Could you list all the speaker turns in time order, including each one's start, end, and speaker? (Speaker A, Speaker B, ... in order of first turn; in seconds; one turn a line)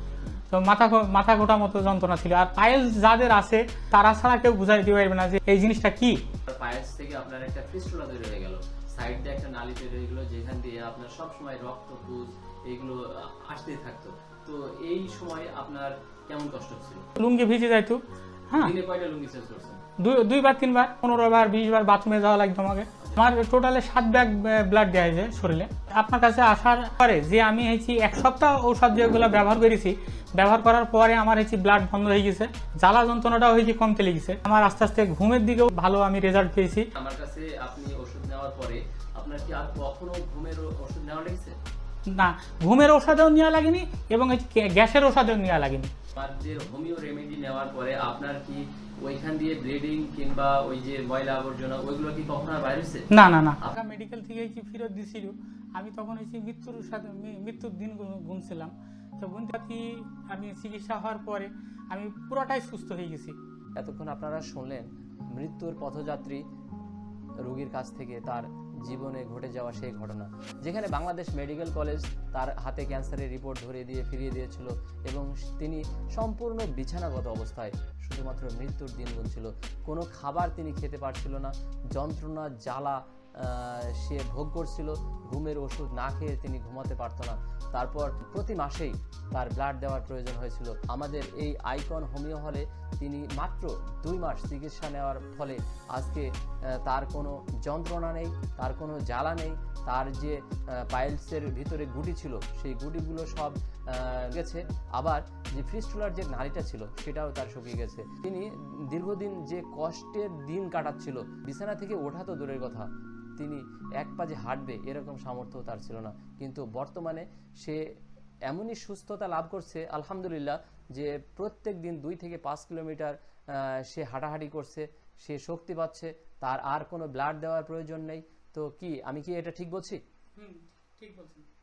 Speaker A: 0.5-6.2
Speaker B: 6.5-17.1
Speaker A: 17.2-18.0
Speaker B: 18.5-19.8
Speaker A: 20.0-36.9
Speaker B: 37.0-41.6
Speaker A: 42.1-45.9
Speaker B: 46.1-53.1
Speaker A: 53.1-63.4
Speaker B: 63.8-66.4
Speaker B: 67.4-117.8
Speaker B: 118.5-130.0
Speaker A: 130.4-131.5